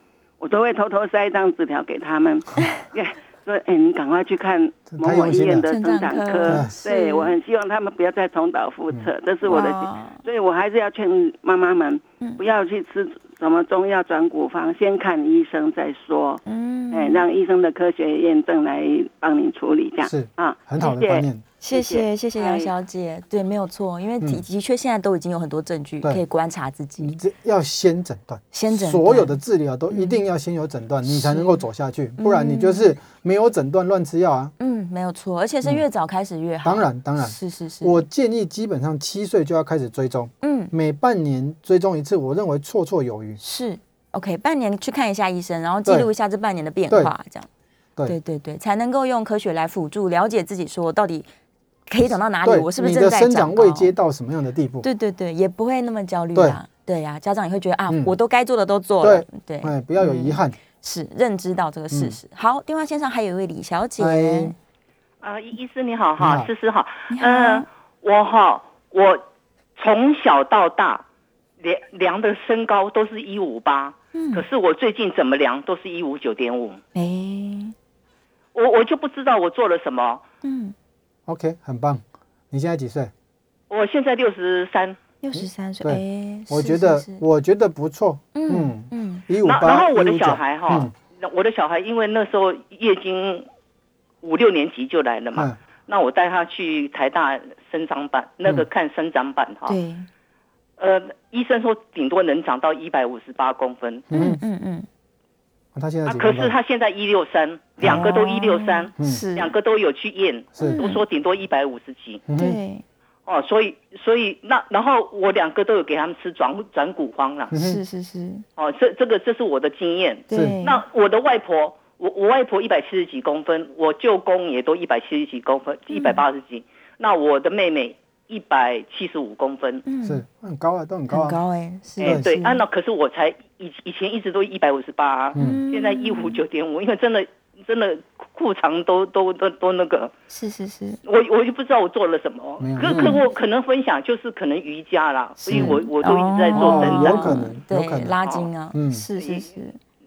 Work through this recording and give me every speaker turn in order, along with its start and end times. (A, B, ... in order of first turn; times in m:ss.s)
0:00.4-0:22.7 A
0:04.9-0:05.7 B
0:05.6-0:07.3 C
0:06.4-0:06.8 B
0:09.4-0:10.2 C
0:16.4-0:17.2 C
0:20.0-0:21.4 B
0:21.6-0:27.1 C
0:27.0-0:34.5 B
0:28.5-0:29.4 C
0:29.9-0:30.2 C
0:31.0-0:31.6 C
0:32.2-0:33.0 C
0:34.6-0:38.0 C
0:36.6-0:43.4 B
0:40.4-0:40.7 C
0:43.4-0:47.5 C
0:48.0-0:51.3 C
0:51.9-0:53.9 C
0:52.4-0:54.8 B
0:54.8-1:04.5 C
0:56.3-0:56.6 B
0:57.9-0:58.1 B
0:59.0-1:00.6 B
1:01.9-1:02.2 B
1:04.0-1:04.6 B
1:05.2-1:09.2 D
1:06.2-1:06.5 B
1:07.1-1:07.7 C
1:09.8-1:11.0 D
1:11.6-1:16.8 D
1:14.1-1:14.4 C
1:16.9-1:17.7 C
1:18.5-1:20.2 D
1:20.4-1:20.7 C
1:21.3-1:23.1 B
1:23.7-1:25.0 D
1:25.2-1:27.2 C
1:25.3-1:30.9 B
1:28.3-1:29.2 C
1:29.4-1:33.5 D
1:34.2-1:39.8 D
1:39.6-1:40.1 C
1:40.8-1:44.1 D
1:44.1-1:44.4 B
1:44.1-1:44.9 C
1:45.7-1:46.6 B
1:46.0-1:52.2 D
1:47.8-1:49.5 C
1:50.6-1:50.8 B
1:50.6-1:51.0 C
1:52.3-1:52.6 B
1:52.4-1:52.8 C
1:53.2-1:57.5 D
1:57.5-1:57.8 B
1:57.5-1:58.4 C
1:58.6-2:09.8 D
2:00.3-2:00.8 C
2:00.3-2:00.6 B
2:05.9-2:06.2 C
2:09.8-2:10.2 C
2:10.0-2:11.4 B
2:11.1-2:12.6 C
2:12.0-2:20.1 D
2:12.0-2:12.3 B
2:15.3-2:15.6 B
2:15.3-2:16.4 C
2:20.3-2:21.0 C
2:21.0-2:27.5 D
2:22.6-2:23.2 B
2:22.8-2:23.2 C
2:25.4-2:29.8 C
2:25.5-2:25.8 B
2:26.5-2:28.1 B
2:28.2-2:28.5 D
2:28.7-2:29.0 B
2:29.2-2:29.5 D